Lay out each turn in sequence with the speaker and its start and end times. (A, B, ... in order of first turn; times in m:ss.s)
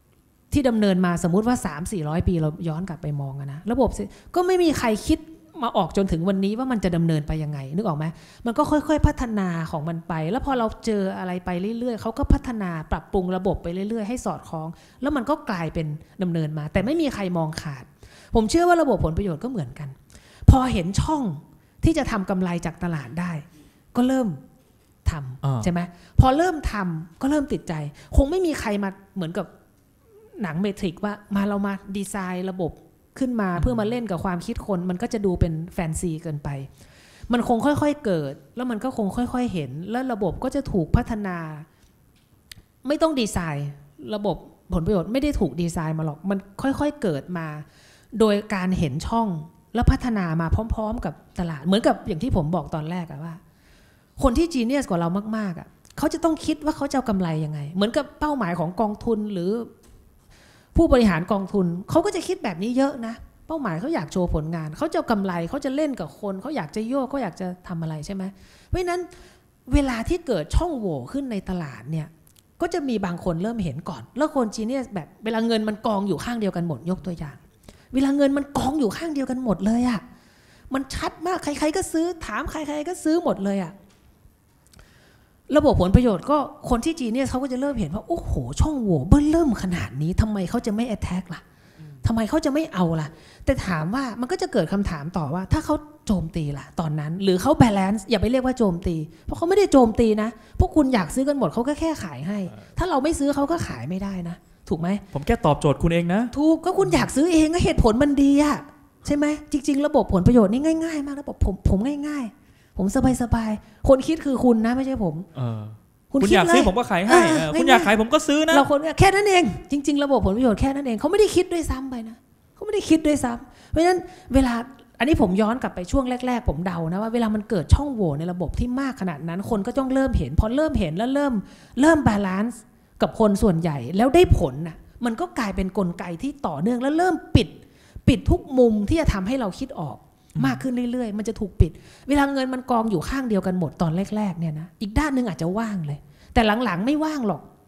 0:00.5-0:24.4 A
0:25.0-0:29.5 A
0:25.4-0:25.7 B
0:30.4-0:36.7 A
0:33.6-0:33.9 B
0:37.3-0:41.6 A
0:42.8-0:53.4 A
0:54.2-0:59.7 A
1:00.7-1:09.1 A
1:09.7-1:17.4 A
1:17.9-1:20.0 A
1:20.7-1:23.7 A
1:25.5-1:31.4 A
1:32.0-1:45.0 A
1:45.1-1:47.1 B
1:46.3-1:55.3 A
1:55.3-1:58.6 B
1:56.1-1:57.9 A
1:58.5-2:27.4 A
2:20.4-2:20.6 B